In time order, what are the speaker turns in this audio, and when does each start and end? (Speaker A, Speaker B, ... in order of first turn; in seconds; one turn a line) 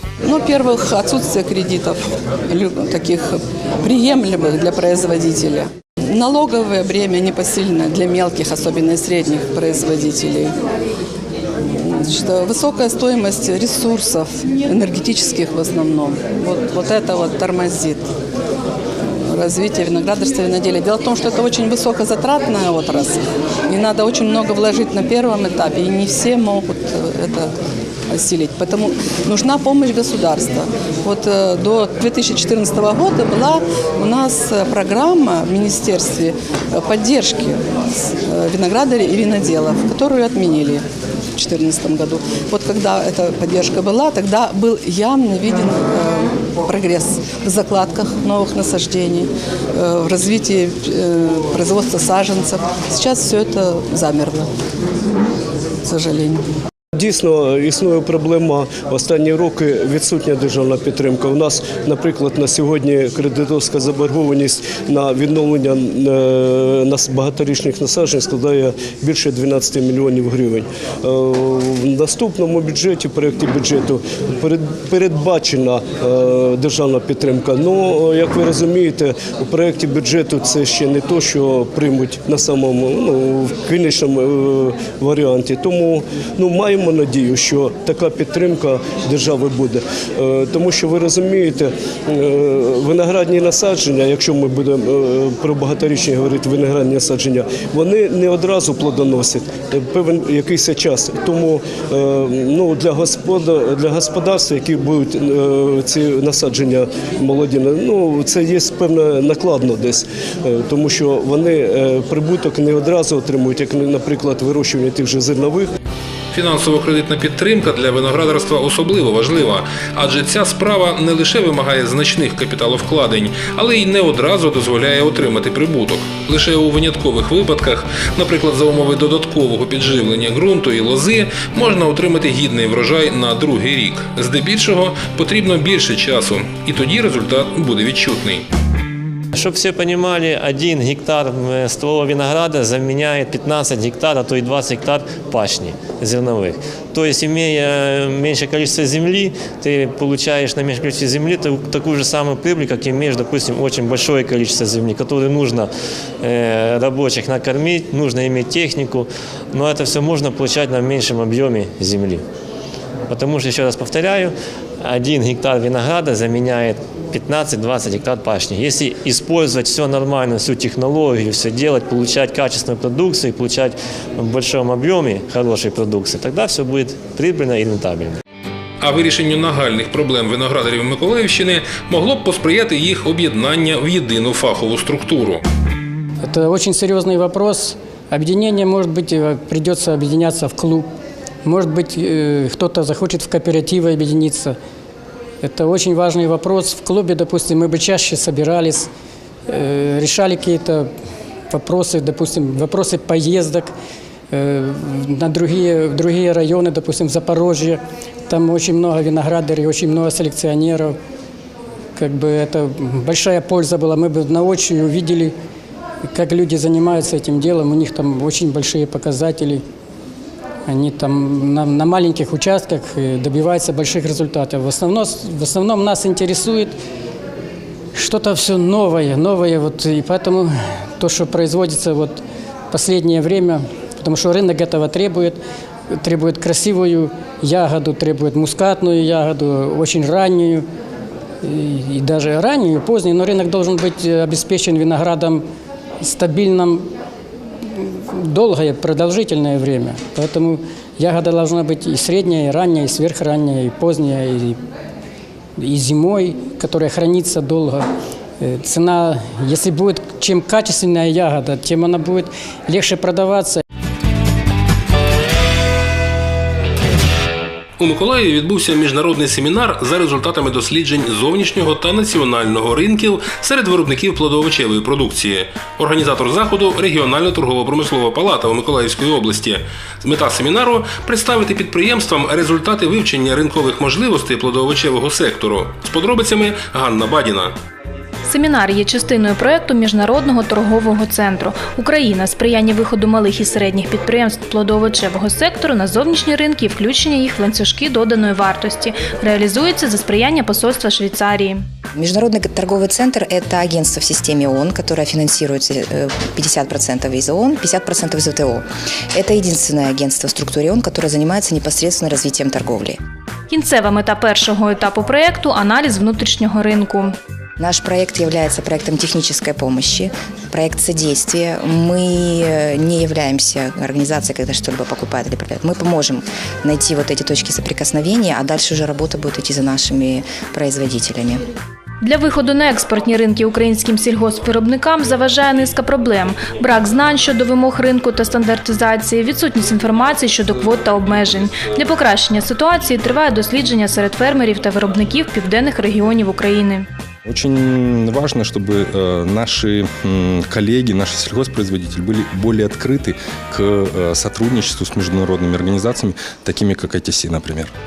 Speaker A: 0.2-10.5
Speaker A: 11.6-18.0
Speaker A: 19.2-27.5
Speaker A: 28.1-37.6
Speaker A: 38.2-40.8
Speaker A: 41.4-54.5
Speaker A: 55.8-56.4
Speaker B: 56.9-115.7
Speaker C: 116.3-138.4
Speaker D: 139.3-155.7
Speaker D: 156.2-162.2
Speaker D: 163.1-178.2
Speaker C: 178.8-185.4
Speaker E: 186.2-190.9
Speaker E: 191.4-194.5
Speaker E: 195.4-198.9
Speaker E: 199.5-200.9
Speaker E: 201.5-203.7
Speaker E: 204.3-210.9
Speaker E: 211.9-215.3
Speaker E: 216.1-219.6
Speaker E: 220.7-226.7
Speaker E: 227.9-235.4
Speaker E: 235.9-240.7
Speaker E: 241.4-245.4
Speaker E: 246.0-246.9
Speaker E: 247.7-254.6
Speaker E: 255.6-257.9
Speaker E: 258.4-263.6
Speaker C: 267.8-287.6
Speaker F: 288.2-301.6
Speaker G: 301.9-313.0
Speaker F: 313.5-317.1
Speaker G: 317.6-331.4
Speaker F: 332.0-346.9
Speaker H: 347.2-357.7